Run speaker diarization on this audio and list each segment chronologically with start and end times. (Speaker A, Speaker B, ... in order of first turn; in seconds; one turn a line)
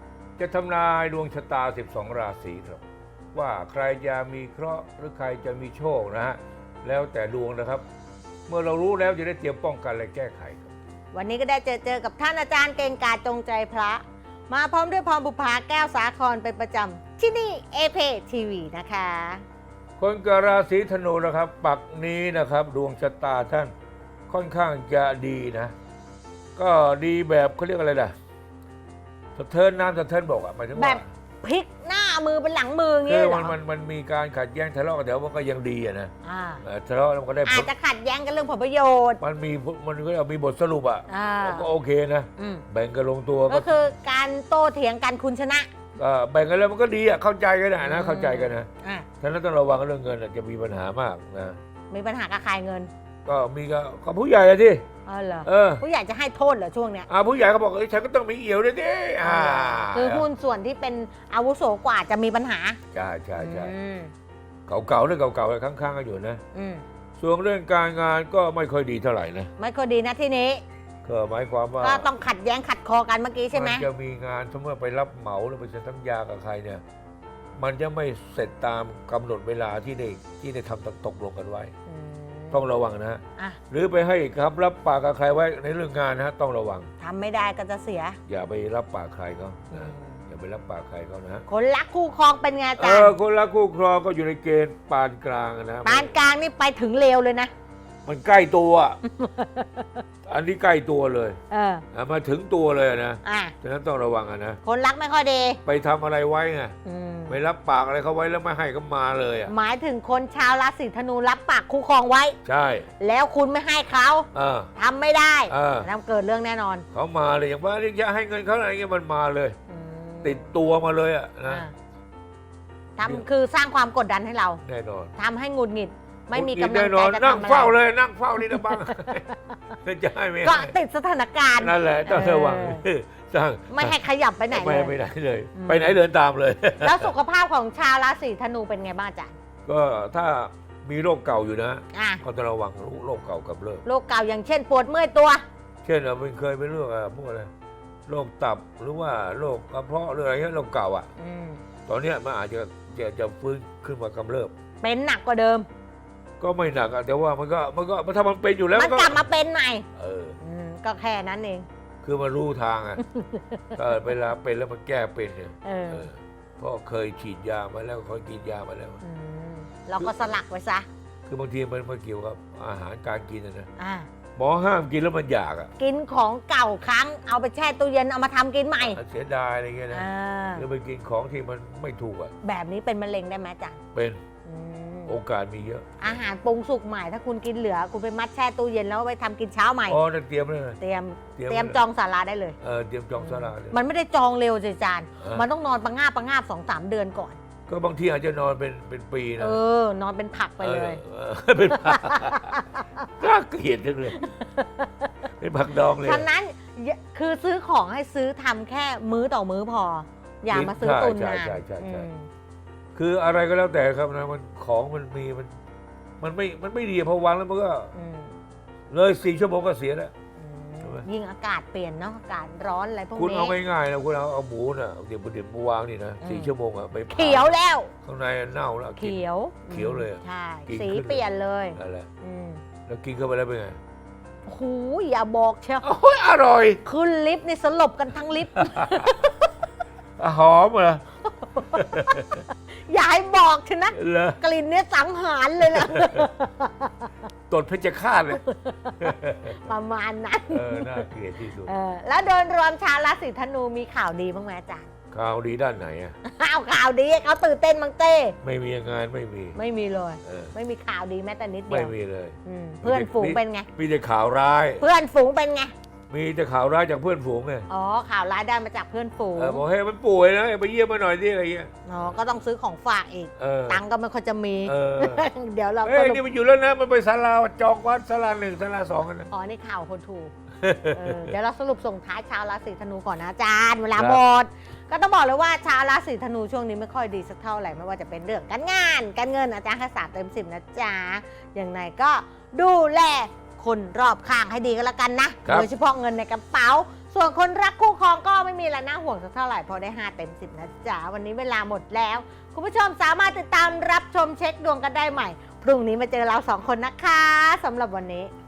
Speaker A: 0.4-2.8
Speaker A: 3.3-7.8
Speaker A: 8.5-10.7
Speaker B: 11.1-19.4
Speaker A: 20.0-23.7
Speaker A: 24.3-25.7
Speaker A: 26.6-28.1
Speaker A: 29.3-31.0
Speaker B: 30.7-33.5
Speaker A: 33.0-36.1
Speaker B: 36.2-36.6
Speaker A: 36.6-37.7
Speaker B: 37.4-39.2
Speaker A: 39.2-43.7
Speaker B: 41.1-41.7
Speaker B: 42.4-42.6
Speaker B: 43.5-45.7
Speaker A: 46.0-48.7
Speaker B: 47.8-49.1
Speaker A: 49.2-51.6
Speaker B: 51.9-52.9
Speaker A: 53.2-54.8
Speaker B: 55.0-57.1
Speaker A: 55.4-55.8
Speaker A: 57.1-60.3
Speaker B: 59.2-62.8
Speaker A: 62.9-63.7
Speaker B: 63.4-64.1
Speaker A: 64.7-66.4
Speaker B: 66.5-66.8
Speaker A: 67.2-69.5
Speaker B: 69.6-70.6
Speaker A: 71.0-72.1
Speaker B: 71.8-73.8
Speaker A: 73.5-76.8
Speaker A: 77.6-81.7
Speaker B: 81.9-82.7
Speaker A: 82.5-86.9
Speaker B: 87.0-88.2
Speaker A: 88.3-91.4
Speaker B: 89.7-90.2
Speaker B: 91.5-93.1
Speaker A: 92.8-96.1
Speaker B: 95.8-97.5
Speaker A: 98.0-99.0
Speaker B: 99.0-100.0
Speaker A: 100.2-101.4
Speaker B: 101.5-101.8
Speaker A: 101.9-104.6
Speaker B: 103.2-103.5
Speaker B: 104.6-105.6
Speaker A: 105.6-106.7
Speaker B: 106.8-107.4
Speaker A: 107.3-109.5
Speaker B: 109.5-112.4
Speaker A: 112.4-112.9
Speaker B: 113.0-116.8
Speaker A: 114.3-114.7
Speaker A: 115.5-115.9
Speaker A: 116.9-119.6
Speaker B: 119.7-120.5
Speaker A: 120.2-121.7
Speaker B: 121.5-121.7
Speaker B: 123.0-124.6
Speaker A: 123.0-123.2
Speaker A: 124.6-125.1
Speaker B: 125.2-127.7
Speaker A: 126.3-129.2
Speaker B: 128.4-129.6
Speaker A: 129.8-130.7
Speaker B: 130.4-132.8
Speaker A: 131.6-134.0
Speaker B: 133.7-134.9
Speaker A: 134.5-137.1
Speaker B: 135.5-136.0
Speaker B: 136.8-139.3
Speaker A: 139.7-143.8
Speaker B: 141.9-142.2
Speaker B: 143.8-145.4
Speaker A: 145.8-147.5
Speaker A: 148.1-151.1
Speaker B: 151.2-151.6
Speaker A: 151.9-154.5
Speaker B: 154.8-155.7
Speaker A: 156.4-159.2
Speaker B: 158.7-159.8
Speaker A: 159.9-160.4
Speaker B: 160.4-161.7
Speaker A: 162.0-163.0
Speaker B: 163.0-164.1
Speaker A: 163.7-169.0
Speaker B: 165.6-166.1
Speaker B: 169.0-170.9
Speaker A: 170.0-170.3
Speaker A: 171.3-173.7
Speaker B: 173.8-174.1
Speaker A: 174.3-175.7
Speaker B: 175.8-179.0
Speaker A: 178.8-182.3
Speaker B: 179.9-180.7
Speaker B: 182.4-183.8
Speaker A: 183.9-184.2
Speaker B: 184.4-185.2
Speaker A: 185.1-186.2
Speaker B: 186.0-190.0
Speaker A: 189.9-190.8
Speaker B: 190.8-192.6
Speaker A: 191.4-191.8
Speaker A: 192.6-193.8
Speaker B: 193.2-197.4
Speaker A: 195.2-195.4
Speaker A: 197.7-199.6
Speaker B: 199.4-201.0
Speaker A: 200.6-202.5
Speaker B: 201.7-203.1
Speaker A: 203.2-204.2
Speaker B: 204.1-205.1
Speaker A: 205.4-206.2
Speaker B: 205.9-212.3
Speaker A: 210.5-212.1
Speaker A: 212.9-215.6
Speaker A: 216.2-217.9
Speaker B: 217.9-218.4
Speaker A: 218.9-220.1
Speaker B: 220.4-223.6
Speaker A: 220.8-221.1
Speaker A: 223.2-231.2
Speaker B: 226.2-226.5
Speaker B: 227.1-227.9
Speaker B: 229.0-232.6
Speaker A: 231.8-232.1
Speaker A: 232.9-233.8
Speaker B: 234.4-235.9
Speaker A: 235.8-236.8
Speaker B: 236.8-239.5
Speaker A: 238.6-239.2
Speaker A: 240.2-241.0
Speaker B: 241.2-247.1
Speaker A: 241.6-242.4
Speaker A: 243.9-244.4
Speaker A: 245.6-246.3
Speaker A: 247.5-248.4
Speaker B: 248.3-251.1
Speaker A: 249.0-249.6
Speaker A: 250.5-251.7
Speaker B: 251.6-254.9
Speaker A: 255.1-256.1
Speaker B: 256.2-258.4
Speaker A: 258.4-259.6
Speaker B: 259.6-261.9
Speaker A: 260.2-260.5
Speaker A: 261.7-264.8
Speaker B: 262.4-263.7
Speaker B: 264.8-265.7
Speaker A: 266.1-267.7
Speaker B: 267.7-269.6
Speaker A: 269.4-272.2
Speaker B: 271.9-276.2
Speaker A: 273.4-273.8
Speaker A: 274.6-275.3
Speaker A: 275.8-279.3
Speaker B: 279.3-280.3
Speaker A: 280.6-281.3
Speaker B: 280.9-308.3
Speaker A: 283.9-284.2